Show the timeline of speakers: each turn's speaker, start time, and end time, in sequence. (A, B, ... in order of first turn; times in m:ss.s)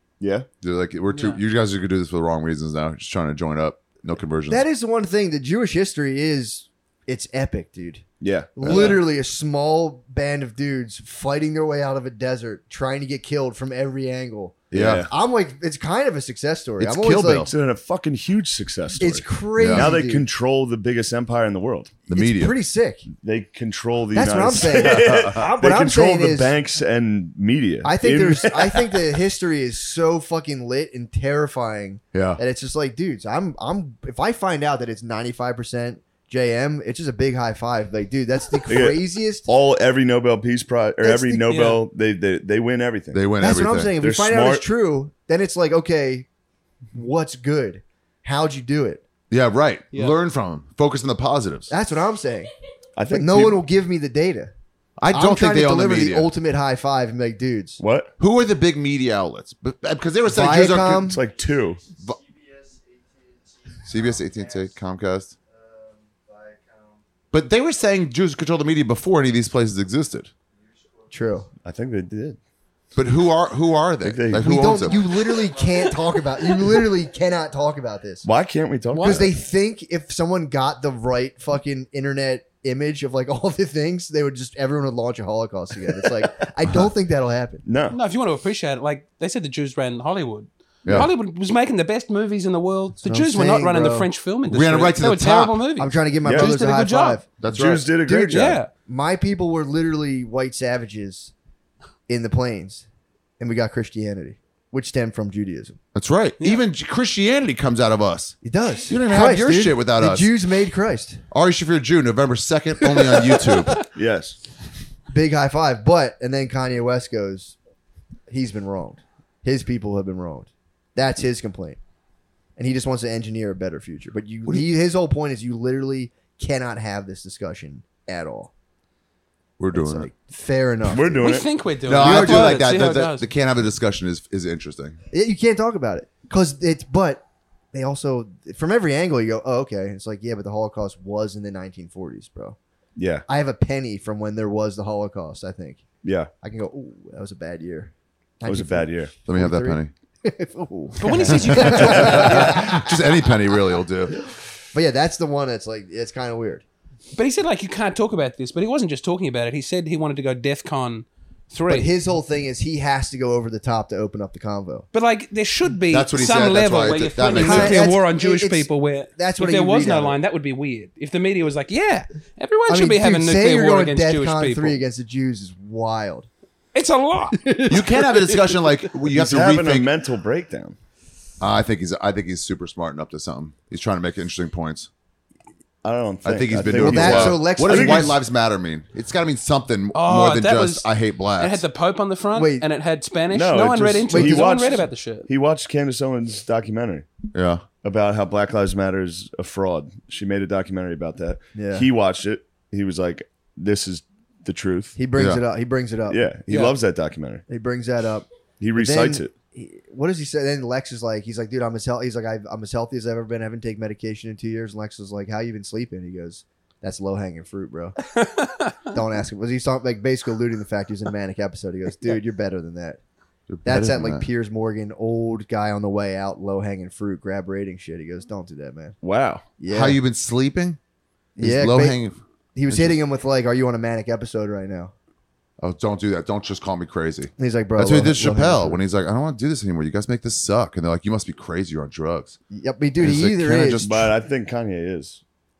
0:00.2-0:00.5 A
0:00.6-0:04.6 B
0:01.1-0:01.4 C
0:04.5-0:17.5 D
0:08.2-0:09.0 A
0:14.7-0:15.1 A
0:14.7-0:15.1 B
0:16.8-0:17.5 B
0:17.3-0:21.9 A
0:19.0-0:20.3 D
0:19.6-0:19.9 B
0:22.1-0:22.6 B
0:22.1-0:23.1 D
0:23.2-0:29.1 A
0:24.1-0:26.6 D
0:24.8-0:25.4 B
0:27.8-0:39.5 D
0:32.1-0:32.4 B
0:38.7-0:43.3 A
0:41.0-0:41.6 D
0:41.5-0:41.8 C
0:43.1-0:43.9 B
0:43.4-0:46.3 D
0:44.0-0:44.6 A
0:46.9-0:49.0 D
0:49.3-0:51.7 B
0:51.7-0:52.5 D
0:53.0-0:53.6 A
0:53.1-0:54.5 D
0:55.0-0:56.3 B
0:55.1-0:57.8 D
0:57.8-0:58.1 A
0:58.2-1:01.1 B
1:00.3-1:01.2 D
1:01.1-1:01.8 A
1:01.3-1:04.8 E
1:03.8-1:05.3 B
1:05.4-1:07.0 E
1:07.3-1:10.3 B
1:10.5-1:11.5 E
1:11.1-1:11.5 D
1:11.6-1:12.4 A
1:13.0-1:15.3 B
1:14.0-1:14.8 A
1:14.3-1:18.3 D
1:15.3-1:16.1 E
1:18.2-1:19.3 A
1:18.9-1:19.3 C
1:19.0-1:27.6 D
1:27.6-1:28.0 A
1:27.9-1:37.2 C
1:33.0-1:34.1 D
1:34.5-1:35.6 B
1:35.8-1:37.3 D
1:36.2-1:36.5 A
1:37.4-1:37.9 B
1:37.5-1:38.6 A
1:38.0-1:41.3 D
1:38.3-1:38.7 C
1:42.1-1:42.8 D
1:43.4-1:45.8 D
1:45.9-1:50.3 B
1:48.4-1:51.2 D
1:51.3-1:53.8 B
1:52.9-1:53.8 D
1:53.9-1:54.4 A
1:55.1-1:57.6 D
1:58.3-2:01.8 D
2:02.6-2:08.5 D
2:09.6-2:10.1 B
2:09.7-2:11.4 D
2:10.9-2:11.5 A
2:11.2-2:13.3 C
2:11.9-2:15.0 B
2:11.9-2:12.8 D
2:15.1-2:22.6 D
2:23.0-2:23.2 A
2:23.3-2:25.8 D
2:26.0-2:26.3 A
2:26.4-2:33.0 D
2:28.4-2:29.1 A
2:29.3-2:29.9 B
2:31.0-2:32.6 C
2:31.4-2:34.2 B
2:34.7-2:36.6 D
2:37.2-2:41.9 C
2:41.7-2:44.9 D
2:44.9-2:54.8 C
2:45.9-2:47.8 B
2:47.3-2:50.2 D
2:52.7-2:56.3 D
2:56.7-2:57.7 C
2:57.3-2:58.6 D
2:57.7-2:59.9 B
2:59.0-3:00.8 A
3:01.4-3:04.9 B
3:05.8-3:08.2 A
3:06.2-3:11.6 B
3:06.7-3:08.2 D
3:09.9-3:15.3 C
3:12.3-3:12.7 D
3:13.3-3:17.1 A
3:14.1-3:14.5 D
3:17.3-3:17.6 B
3:17.8-3:25.0 A
3:21.6-3:21.9 D
3:25.0-3:26.4 D
3:25.2-3:25.4 B
3:26.1-3:27.4 A
3:27.5-3:38.0 D
3:28.6-3:29.3 A
3:38.2-3:38.8 C
3:38.9-3:43.0 D
3:43.5-3:44.3 B
3:43.6-3:49.0 D
3:49.0-3:49.4 A
3:49.6-3:50.0 D
3:49.7-3:50.8 B
3:51.4-3:52.0 D
3:51.4-3:52.2 B
3:52.6-3:54.9 D
3:52.7-3:53.0 B
3:55.6-4:02.4 B
3:57.4-3:58.8 D
4:02.5-4:04.1 D
4:03.0-4:04.1 B
4:03.8-4:05.2 A